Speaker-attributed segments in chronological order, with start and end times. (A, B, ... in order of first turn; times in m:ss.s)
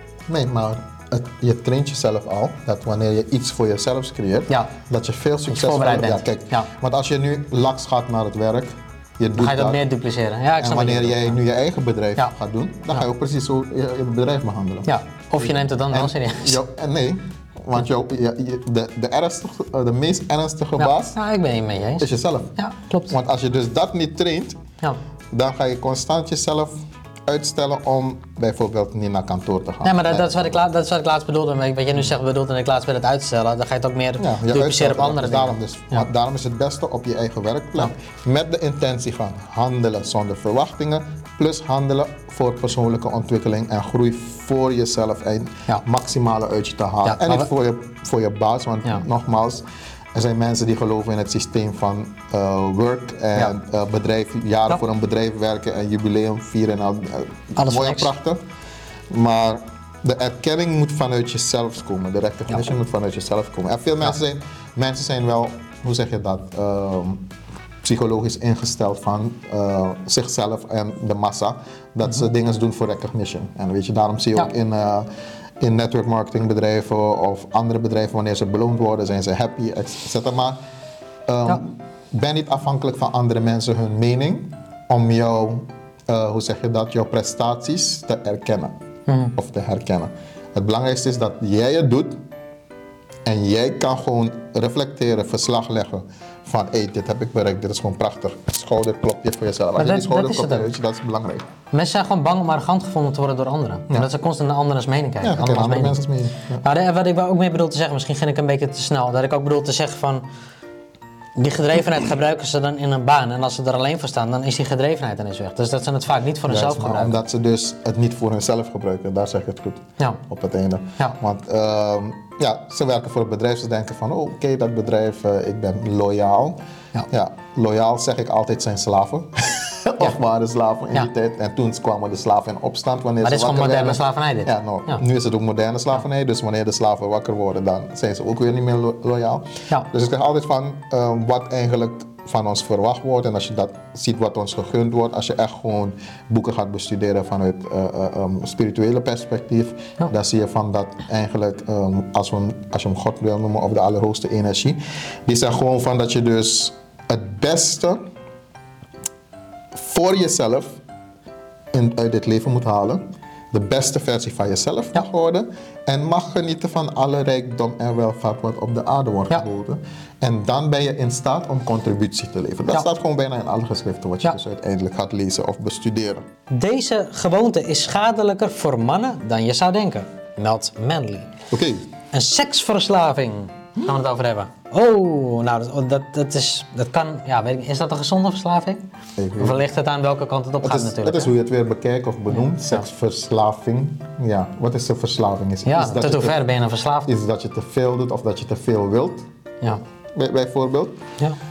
0:00.3-0:09.8 A
0:05.5-0:06.7 B
0:09.4-0:11.4 B
0:10.6-0:14.9 A
0:14.9-0:16.6 B
0:15.4-0:21.2 A
0:20.8-0:23.1 B
0:22.0-0:22.5 A
0:23.1-0:24.6 A
0:25.3-0:26.7 A
0:27.3-0:30.5 A
0:29.8-0:36.0 B
0:34.2-0:58.4 A
0:47.0-0:47.5 B
0:57.6-0:58.1 B
0:59.1-1:07.3 A
1:07.8-1:15.1 A
1:15.6-1:20.6 A
1:21.3-1:28.7 A
1:29.1-1:29.4 B
1:29.3-1:32.2 A
1:33.2-1:41.5 A
1:39.8-1:40.7 B
1:41.7-1:46.0 B
1:45.2-1:46.6 A
1:46.6-1:50.2 B
1:51.4-1:57.2 B
1:56.5-2:06.6 A
2:07.1-2:38.0 A
2:13.2-2:15.0 B
2:39.7-2:40.8 A
2:41.7-2:43.0 A
2:43.5-2:56.2 A
2:56.5-3:01.3 B
3:01.5-3:01.9 A
3:02.1-3:08.8 B
3:09.2-3:09.6 A
3:09.4-3:11.3 B
3:10.6-3:16.4 A
3:12.3-3:12.8 B
3:15.7-3:17.1 B
3:17.1-3:19.3 A
3:20.2-3:21.0 A